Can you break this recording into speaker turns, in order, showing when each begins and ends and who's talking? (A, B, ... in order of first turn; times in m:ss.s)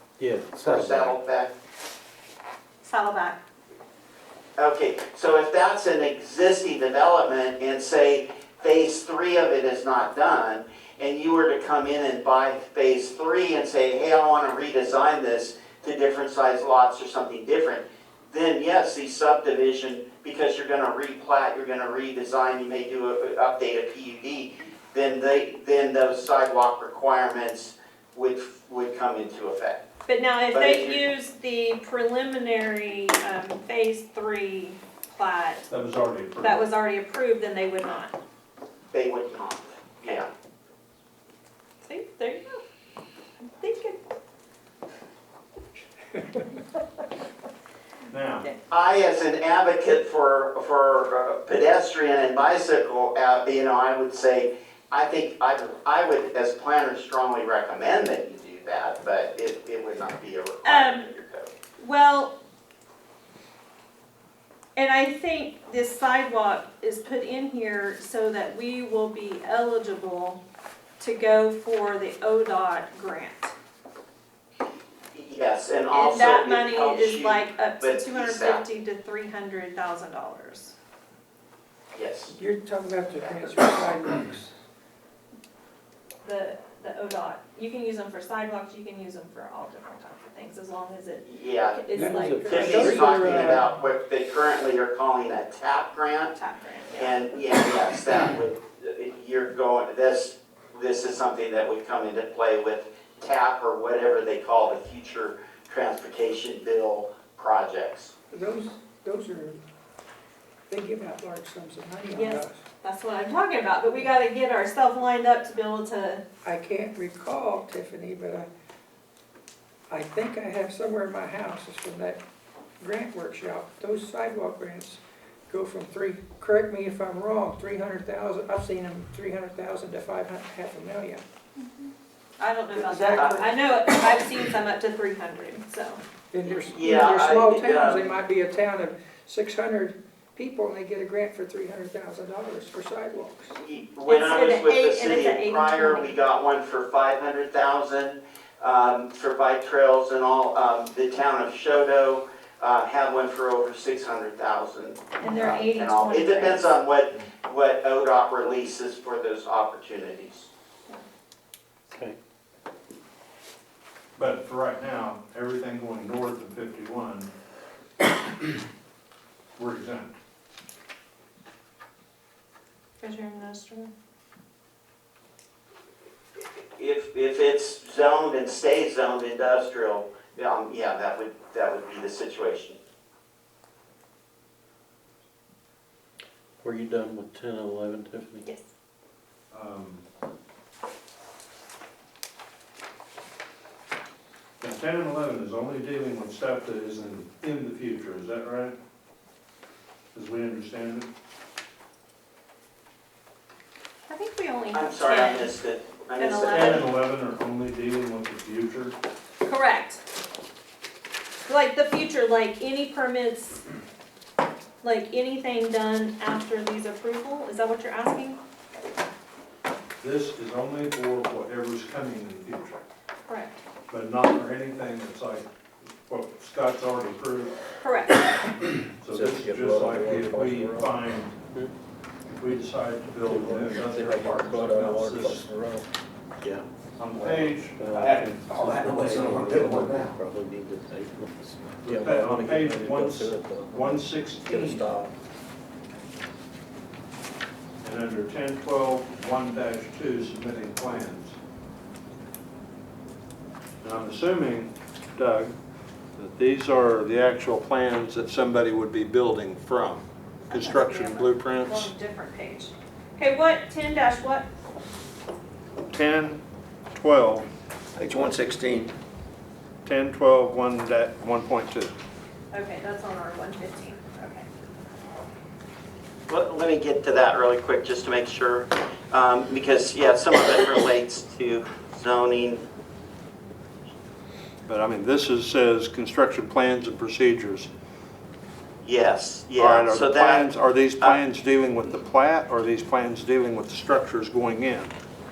0:00.2-0:01.1 A
0:00.5-0:01.5 B
0:02.8-0:03.4 C
0:04.6-0:29.8 B
0:30.1-0:35.7 C
0:30.5-0:31.0 B
0:35.7-0:36.6 D
0:36.4-0:38.1 C
0:38.9-0:40.3 B
0:41.8-0:42.6 C
0:43.4-0:44.0 C
0:48.1-0:48.5 D
0:48.7-1:01.5 B
1:00.6-1:01.1 C
1:01.8-1:02.3 C
1:04.8-1:10.4 C
1:11.0-1:13.5 C
1:15.1-1:18.6 B
1:15.9-1:20.7 C
1:21.9-1:22.3 B
1:22.3-1:24.5 E
1:26.2-1:33.3 C
1:31.2-1:31.8 B
1:31.9-1:33.7 E
1:32.0-1:33.6 A
1:32.4-1:36.3 B
1:36.3-1:37.2 C
1:37.0-1:48.1 B
1:48.3-1:49.6 E
1:50.7-1:52.6 E
1:52.1-1:56.2 C
1:56.4-1:58.5 E
1:59.9-2:02.2 E
2:02.8-2:11.2 E
2:11.6-2:16.0 C
2:12.7-2:13.5 E
2:13.1-2:13.4 B
2:16.3-2:23.6 E
2:16.6-2:18.2 B
2:23.6-2:40.5 B
2:24.1-2:26.1 C
2:35.2-2:36.7 C
2:41.9-2:42.2 A
2:44.2-2:47.3 D
2:49.6-2:50.1 D
2:53.0-2:53.9 C
2:56.8-3:02.8 B
3:06.6-3:08.4 A
3:09.5-3:10.0 D
3:14.6-3:18.8 D
3:20.1-3:21.1 D
3:24.1-3:25.5 C
3:24.7-3:26.9 B
3:26.2-3:26.8 C
3:26.5-3:28.9 D
3:29.4-3:30.0 C
3:31.4-3:33.6 C
3:34.8-3:38.4 C
3:40.0-3:42.8 D
3:43.3-3:43.5 C
3:43.9-3:45.5 D
3:46.0-3:47.6 D
3:47.8-3:48.5 C
3:48.8-3:51.4 D
3:49.0-3:51.0 A
3:52.2-3:55.5 D
3:53.2-3:55.8 A
3:57.0-3:57.8 D
3:57.2-4:05.1 A
3:57.9-4:00.2 F
4:01.8-4:04.9 D
4:07.8-4:11.4 D
4:13.8-4:15.6 D
4:16.2-4:21.9 D
4:20.5-4:24.4 C
4:25.9-4:27.5 D
4:28.0-4:28.9 F
4:29.8-4:31.9 D
4:32.5-4:34.4 C
4:36.3-4:42.6 B
4:44.7-4:47.7 D
4:48.8-4:51.2 B
4:49.6-4:54.9 D